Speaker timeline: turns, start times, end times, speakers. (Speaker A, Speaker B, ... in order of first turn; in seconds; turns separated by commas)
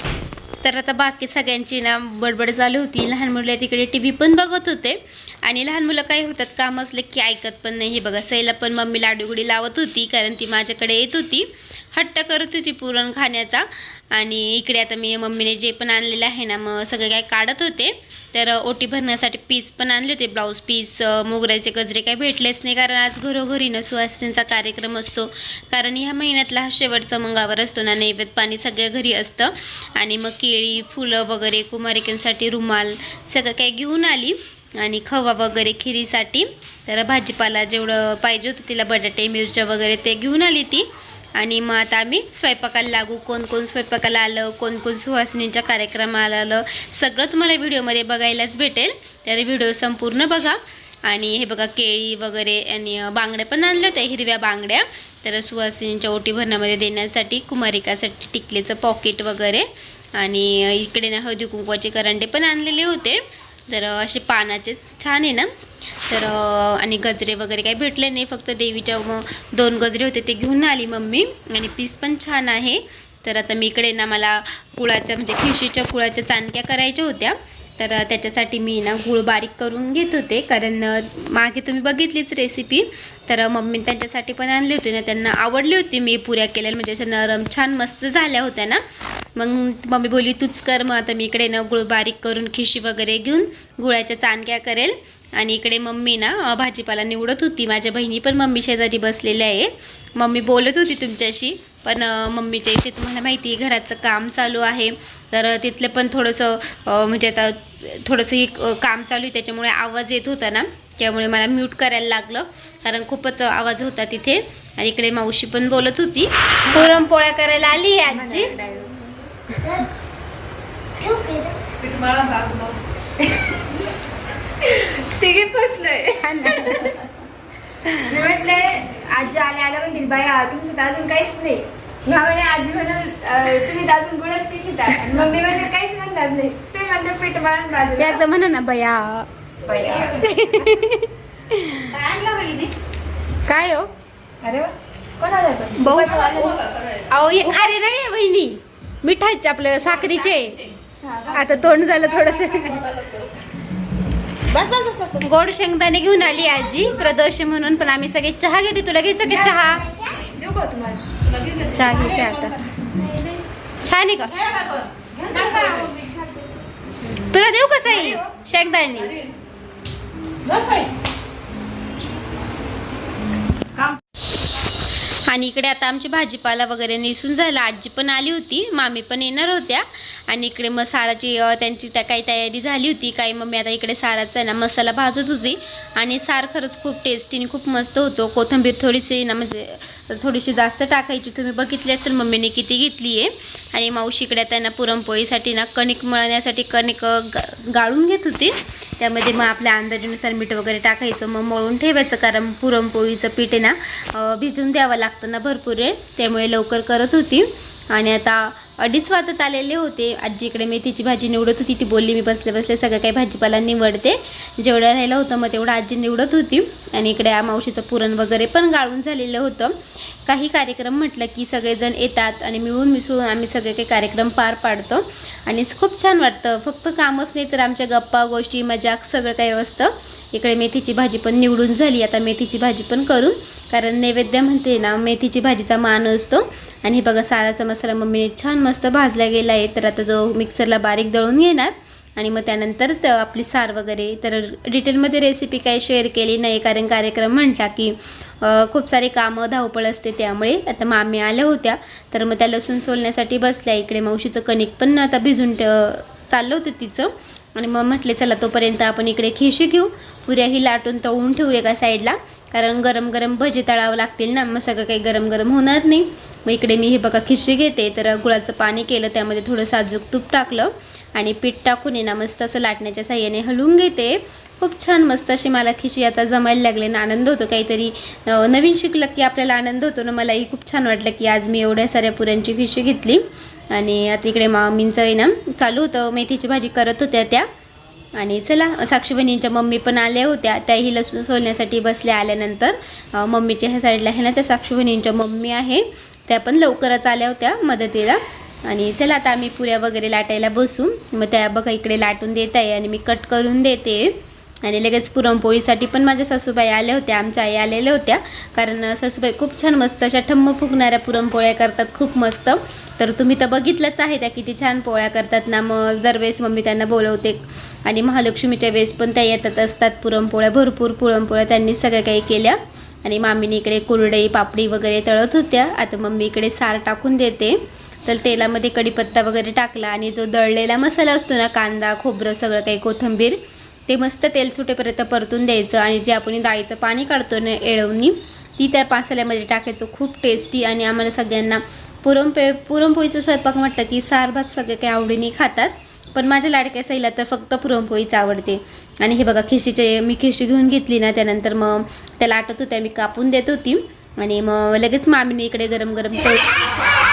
Speaker A: 0.6-65.5, Speaker A: 66.1-88.8, Speaker A: 89.3-118.6, Speaker B: 118.1-119.1, Speaker B: 121.0-121.5, Speaker C: 121.8-122.8, Speaker B: 124.6-127.0, Speaker A: 126.5-126.8, Speaker B: 128.0-138.2, Speaker A: 135.1-135.4, Speaker A: 137.9-139.3, Speaker B: 139.6-140.7, Speaker C: 139.7-140.4, Speaker A: 140.1-141.9, Speaker C: 141.9-142.7, Speaker A: 143.4-143.9, Speaker B: 144.4-146.6, Speaker A: 145.8-146.2, Speaker C: 146.0-147.1, Speaker A: 147.1-150.6, Speaker C: 149.8-150.7, Speaker B: 151.0-151.5, Speaker A: 151.3-152.8, Speaker C: 151.5-153.3, Speaker C: 154.5-155.4, Speaker A: 155.2-160.0, Speaker B: 159.3-159.6, Speaker B: 160.1-161.1, Speaker C: 161.2-163.2, Speaker A: 161.7-162.6, Speaker A: 163.8-164.3, Speaker C: 164.2-166.0, Speaker B: 165.2-166.5, Speaker A: 167.1-169.2, Speaker B: 167.9-168.3, Speaker C: 169.0-169.3, Speaker C: 170.4-170.9, Speaker C: 173.7-174.0, Speaker A: 175.3-287.4, Speaker A: 288.1-356.7